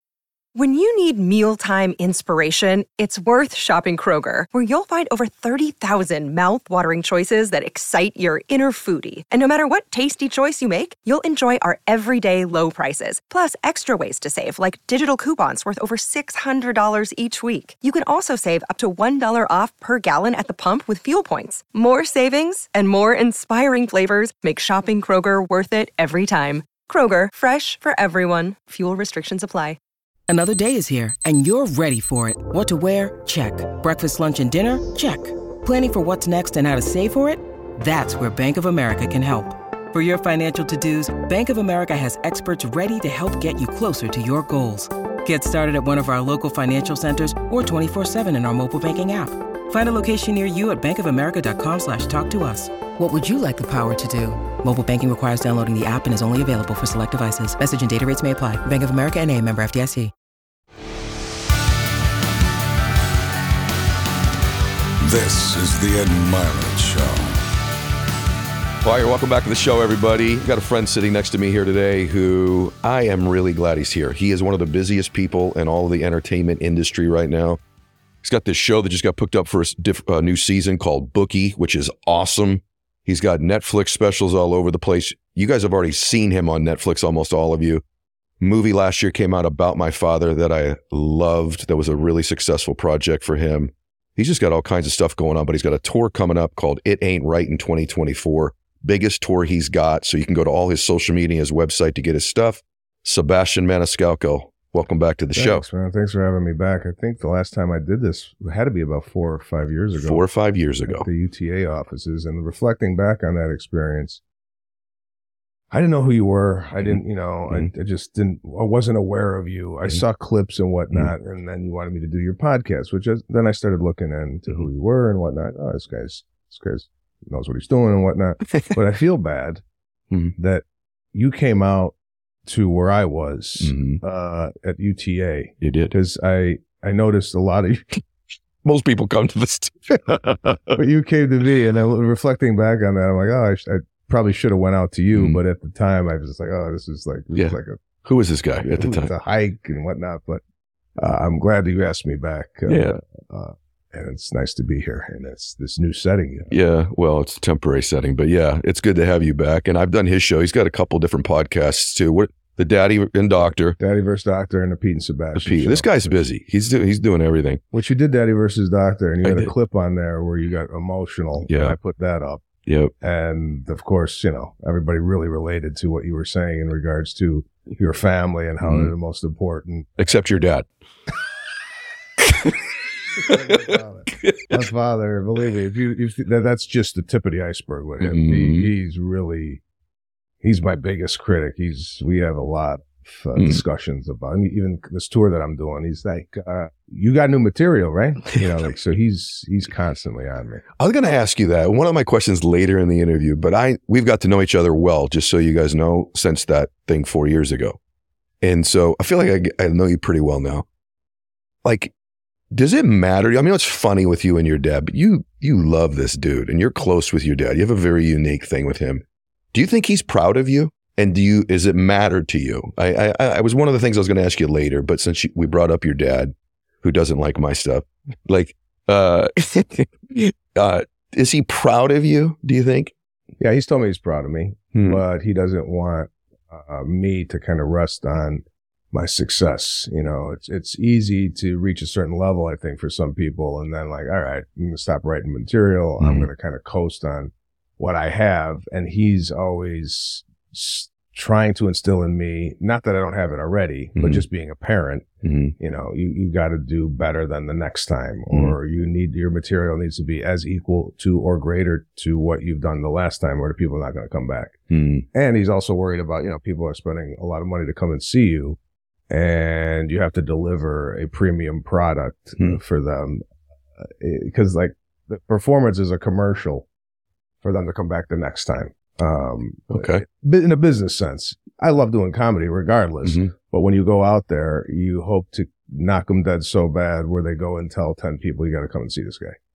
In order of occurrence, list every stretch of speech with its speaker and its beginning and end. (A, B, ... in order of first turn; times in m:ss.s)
0:00.6-0:29.8 A
0:30.3-1:00.1 B
1:05.0-1:07.3 C
1:08.8-1:17.6 D
1:18.2-1:27.8 D
1:28.4-1:45.6 D
1:45.4-1:50.2 E
1:50.0-1:51.1 D
1:50.9-1:54.2 E
1:55.7-2:09.6 E
2:10.1-2:10.4 D
2:10.4-2:18.0 E
2:13.6-2:14.0 D
2:15.6-2:16.0 D
2:18.6-2:20.8 D
2:20.7-2:27.8 E
2:25.1-2:25.4 D
2:27.3-2:29.1 D
2:28.6-2:30.4 E
2:31.0-2:36.5 E
2:32.7-2:33.0 D
2:36.5-2:43.8 D
2:43.8-2:45.9 E
2:45.4-2:47.6 D
2:47.7-2:52.4 E
2:49.2-2:49.5 D
2:51.5-2:51.8 D
2:52.7-2:52.9 D
2:53.0-3:00.0 E
2:58.6-2:58.9 D
3:00.0-3:00.7 D
3:02.3-3:02.6 D
3:03.2-3:09.6 E
3:04.2-3:04.5 D
3:08.0-3:08.7 D
3:10.4-3:20.6 E
3:13.4-3:13.6 D
3:20.8-3:27.8 D
3:28.4-3:30.6 D
3:31.6-3:31.9 D
3:32.5-3:52.9 D
3:53.4-4:15.1 E
3:54.7-3:55.0 D
4:06.0-4:06.3 D
4:14.0-4:14.2 D
4:15.2-4:15.6 D
4:15.6-4:24.6 E
4:24.7-4:25.1 D
4:25.1-4:28.6 E
4:29.1-4:33.2 E
4:33.8-4:36.7 E
4:37.4-4:49.4 E
4:39.7-4:40.0 D
4:43.0-4:43.3 D